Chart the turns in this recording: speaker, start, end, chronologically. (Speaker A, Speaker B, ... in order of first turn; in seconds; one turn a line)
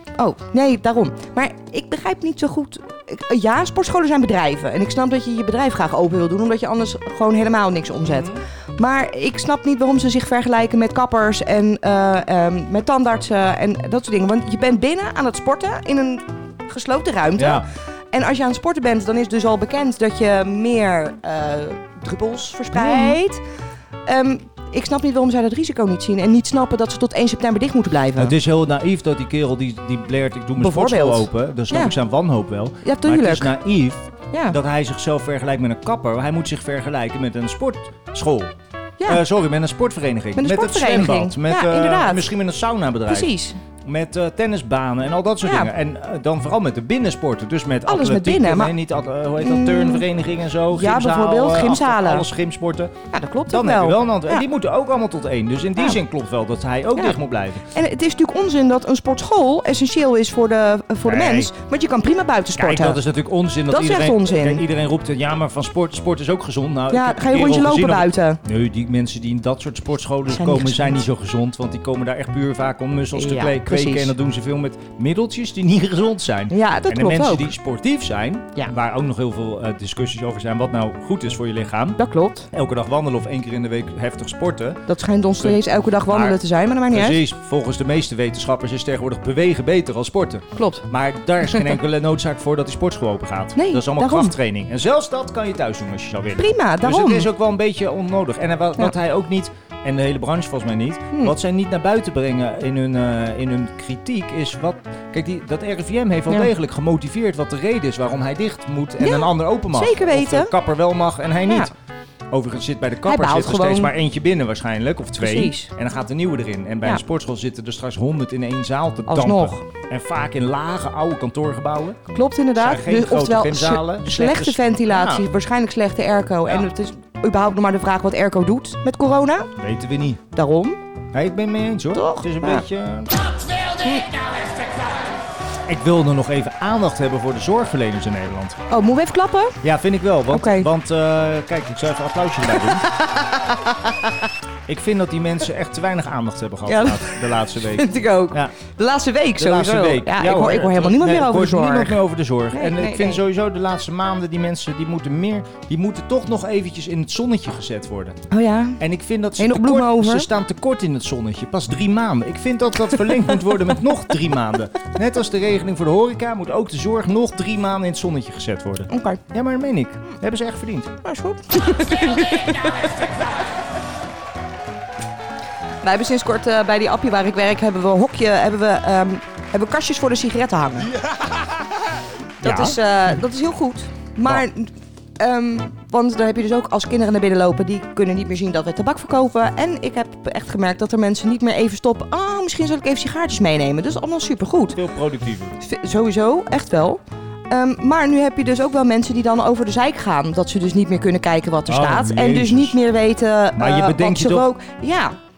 Speaker A: 0.2-23.4
Speaker B: 8.0-8.4
Speaker B: 17.4-17.7
Speaker B: 22.7-23.2
Speaker A: 24.1-28.4
Speaker B: 28.2-38.5
Speaker A: 30.6-31.9
Speaker A: 32.8-33.5
Speaker A: 34.3-34.6
Speaker B: 39.0-57.7
Speaker A: 40.4-42.3
Speaker A: 43.1-43.6
Speaker A: 45.4-45.7
Speaker A: 47.9-48.7
Speaker A: 49.4-50.0
Speaker A: 50.7-52.3
Speaker A: 53.1-54.5
Speaker A: 57.7-63.0
Speaker B: 61.0-61.5
Speaker B: 62.6-82.0
Speaker A: 63.7-64.7
Speaker A: 66.9-68.4
Speaker A: 70.3-71.1
Speaker A: 73.1-74.1
Speaker A: 76.5-77.5
Speaker A: 82.0-82.5
Speaker B: 82.5-84.8
Speaker A: 84.9-87.2
Speaker B: 85.4-86.4
Speaker B: 86.9-111.7
Speaker A: 90.6-90.8
Speaker A: 93.5-94.3
Speaker A: 96.4-97.3
Speaker A: 109.0-110.5
Speaker A: 111.5-111.7
Speaker B: 112.3-125.3
Speaker A: 113.1-113.9
Speaker A: 115.2-115.7
Speaker A: 119.1-119.6
Speaker A: 122.1-129.5
Speaker B: 129.6-130.2
Speaker A: 130.3-130.8
Speaker B: 131.1-133.1
Speaker A: 131.9-132.7
Speaker B: 135.7-138.6
Speaker A: 138.7-139.6
Speaker B: 139.6-142.9
Speaker A: 140.3-140.7
Speaker A: 143.0-143.4
Speaker B: 144.7-148.5
Speaker A: 146.7-153.2
Speaker B: 149.4-158.2
Speaker A: 158.3-158.8
Speaker B: 158.8-170.9
Speaker A: 159.4-160.3
Speaker A: 168.9-169.2
Speaker A: 171.0-173.1
Speaker A: 175.8-180.9
Speaker B: 182.4-182.8
Speaker A: 182.4-194.8
Speaker B: 194.7-195.6
Speaker A: 195.6-205.2
Speaker B: 201.7-202.8
Speaker B: 203.6-204.5